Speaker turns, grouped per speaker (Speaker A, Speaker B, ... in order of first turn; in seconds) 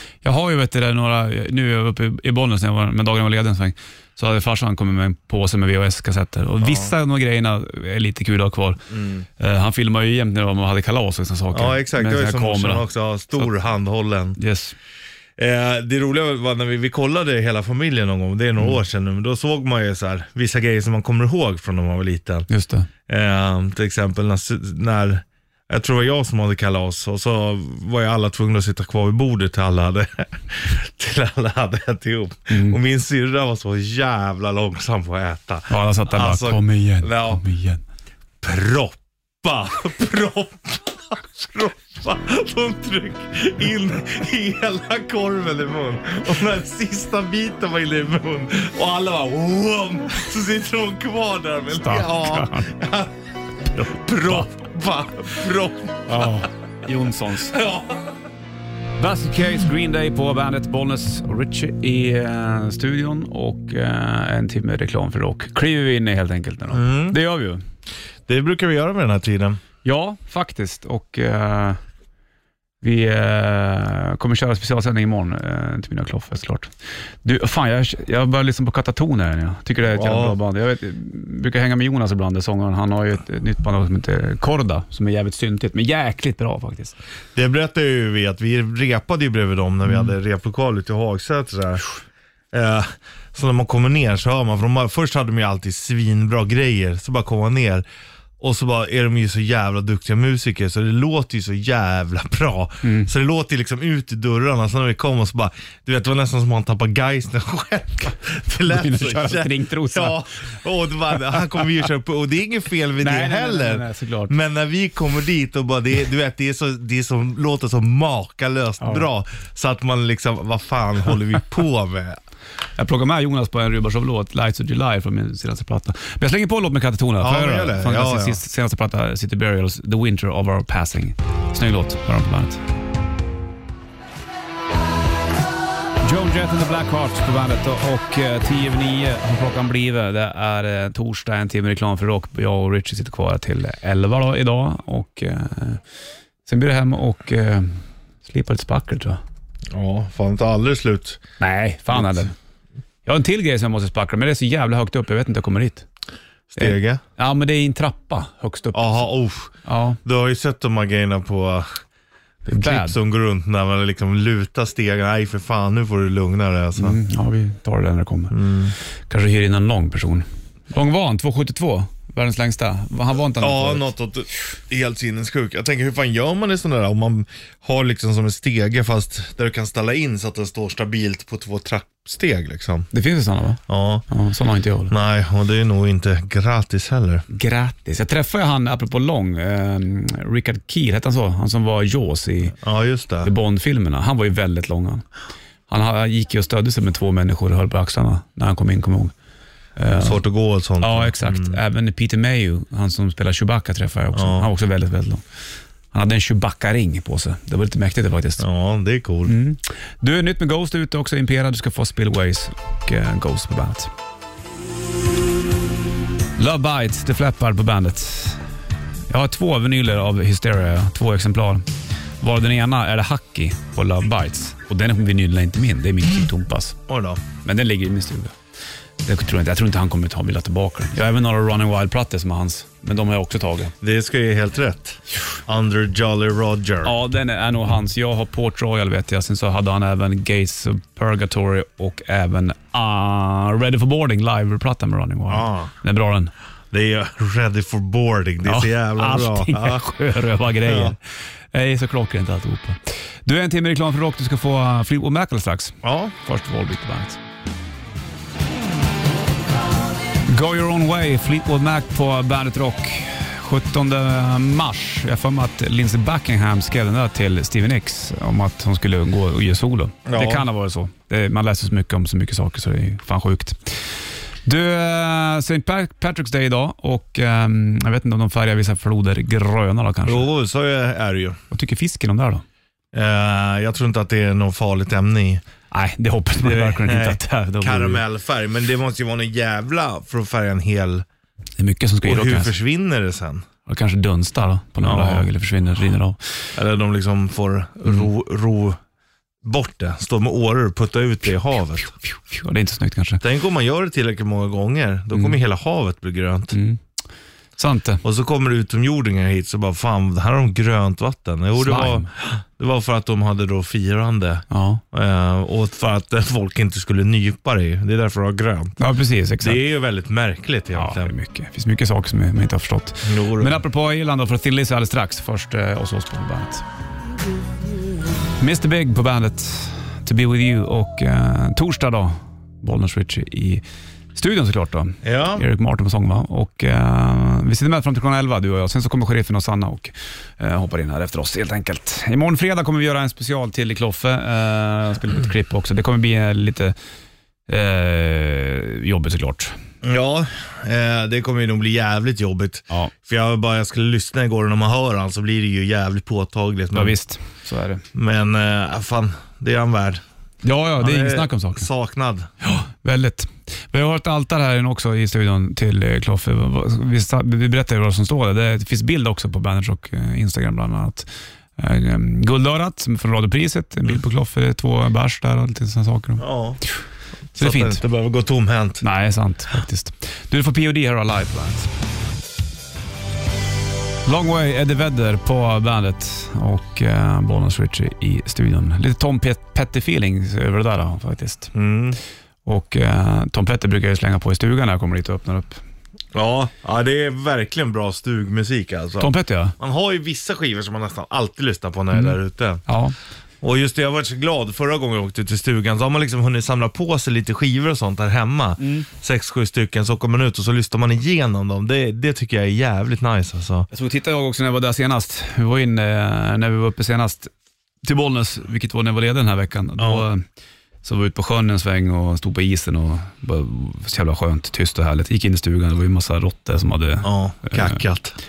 Speaker A: 0.2-13.5, 14.4-14.7, 22.5-22.9, 32.5-32.8, 35.7-37.8, 51.8-52.7, 53.8-54.5, 56.1-57.6, 59.0-67.6, 69.8-71.8, 72.8-76.7, 77.2-87.0, 102.8-103.1, 108.7-110.2, 113.0-114.3, 118.8-119.1, 122.8-132.6, 136.0-145.8, 146.4-149.2, 151.4-152.3, 153.1-155.8, 156.6-159.1, 159.6-160.0, 162.4-163.0, 166.8-168.3, 169.1-173.9, 182.9-184.9, 187.3-192.6, 193.2-195.1, 195.7-199.1, 199.8-200.2, 200.8-205.2, 205.9-208.4, 209.2-213.9, 216.4-218.4, 219.1-221.7, 222.2-226.8, 227.4-228.3, 229.0-233.7, 236.8-246.3, 248.4-257.2, 260.3-280.3, 281.5-282.4, 285.7-288.0, 291.6-292.5, 293.6-296.5, 302.0-303.2, 306.5-306.8, 307.6-308.0, 311.6-312.1, 314.5-314.8, 318.8-319.6, 320.7-326.6, 328.4-333.6, 334.1-346.7, 347.5-349.5, 356.7-357.8, 360.4-361.7, 362.4-376.2, 377.4-377.8, 378.8-381.7, 384.1-391.5, 392.4-395.6, 399.0-399.5, 401.9-402.9, 408.6-408.9, 413.7-417.3, 417.8-420.2, 420.8-427.8
Speaker B: 6.6-6.9, 8.9-9.2, 11.5-14.4, 15.4-22.5, 23.1-37.4, 38.4-53.1, 53.7-56.4, 57.5-58.1, 66.7-67.2, 68.3-69.6, 79.9-80.3, 87.3-91.8, 92.5-97.8, 98.4-122.2, 127.2-128.4, 149.7-151.2, 156.5-157.0, 158.7-159.5, 160.0-161.7, 162.5-167.0, 168.3-168.7, 173.4-182.9, 183.7-184.0, 184.9-187.2, 192.6-193.3, 199.9-201.6, 204.1-204.4, 208.4-209.3, 226.9-227.2, 233.8-236.9, 245.3-245.7, 246.7-249.8, 250.7-250.9, 255.8-256.1, 270.1-270.5, 280.1-281.4, 282.9-285.4, 286.4-291.0, 292.0-293.4, 294.8-295.3, 296.5-298.8, 299.4-301.9, 303.2-306.6, 308.0-318.8, 319.4-321.1, 323.0-323.6, 335.0-335.4, 349.8-357.0, 357.9-360.0, 360.8-362.3, 376.2-376.6, 377.4-378.8, 391.5-392.0, 396.1-402.6, 403.4-413.7, 419.8-420.1, 427.0-428.2